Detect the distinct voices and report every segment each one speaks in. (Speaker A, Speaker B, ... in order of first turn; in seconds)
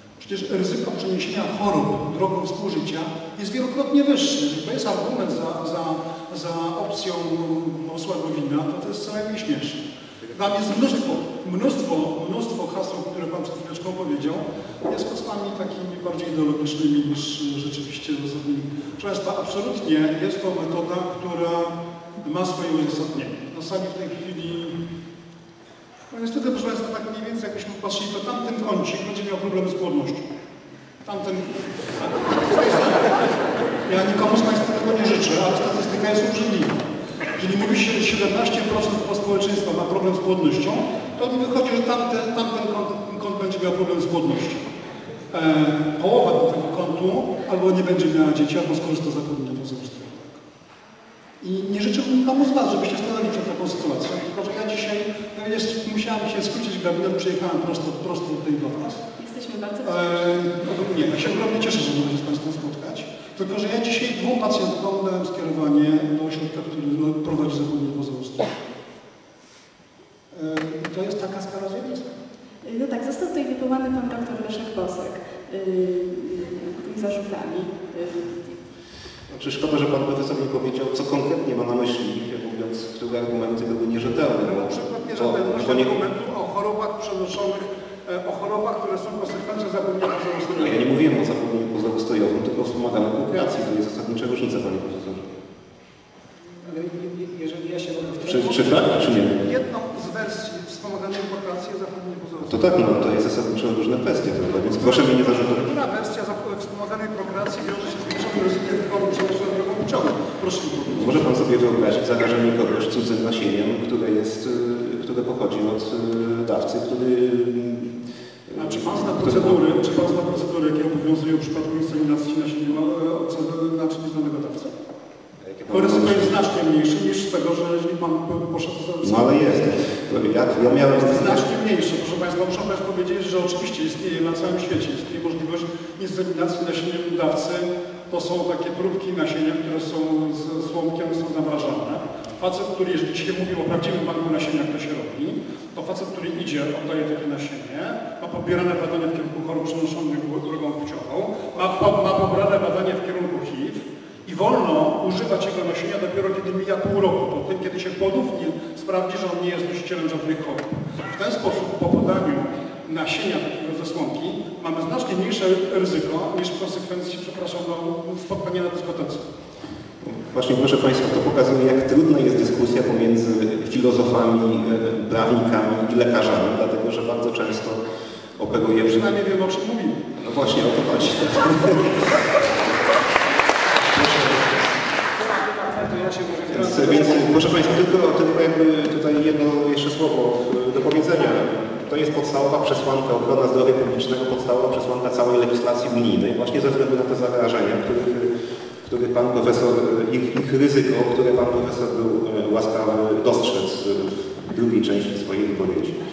Speaker A: 0.2-24.8, 26.1-30.2, 31.0-33.2, 33.9-36.8, 37.4-44.7, 45.3-50.4, 51.4-59.0, 59.8-68.5, 70.3-72.1, 84.3-90.8, 98.3-102.7, 104.5-111.3, 118.5-124.7, 125.7-129.5, 130.7-169.2, 178.7-180.0
Speaker B: 59.2-60.4, 72.6-78.4
Speaker C: 79.3-85.9, 90.6-95.2, 98.3-99.4, 102.5-105.7, 110.9-119.6, 125.4-126.4, 129.0-131.5, 170.0-177.8, 178.4-179.1, 180.2-182.0, 183.9-184.6, 186.5-198.3, 198.8-206.0
Speaker D: 96.7-98.8, 185.4-187.4